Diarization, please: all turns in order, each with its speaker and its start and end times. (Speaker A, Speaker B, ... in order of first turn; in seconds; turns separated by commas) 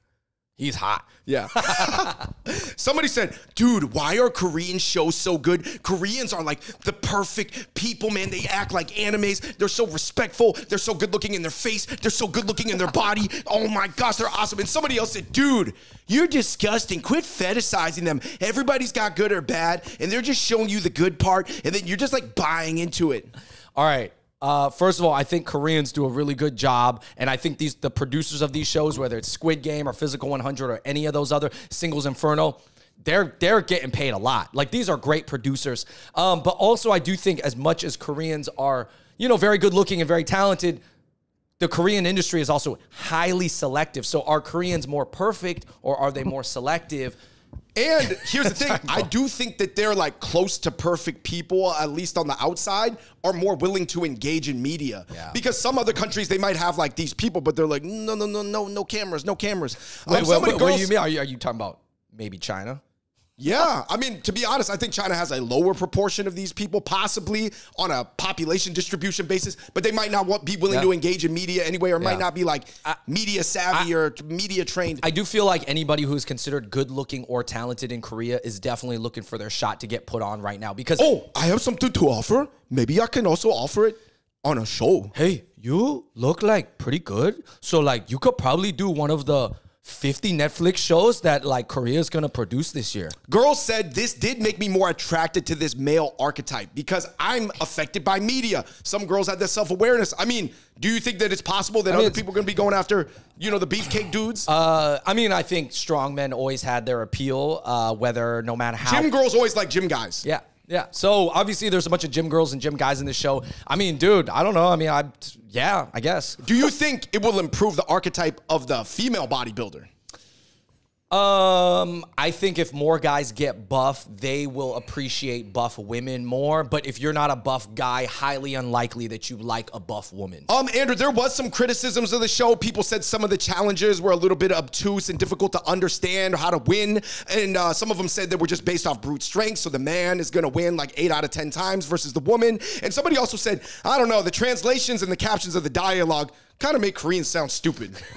Speaker A: 0.6-2.1, Speaker B: 1.2-23.3, Speaker A: 23.8-40.8, Speaker A: 41.6-47.2, Speaker B: 47.8-60.9, Speaker A: 48.4-49.1, Speaker A: 60.1-62.8, Speaker B: 63.4-75.0, Speaker A: 72.0-72.2, Speaker A: 75.0-81.1, Speaker B: 81.0-85.1, Speaker A: 85.1-93.1, Speaker B: 93.3-104.5, Speaker A: 101.9-102.2, Speaker A: 104.5-109.1, Speaker B: 108.8-110.2, Speaker A: 110.2-116.4, Speaker B: 116.4-119.9, Speaker A: 121.1-130.5, Speaker B: 130.5-148.0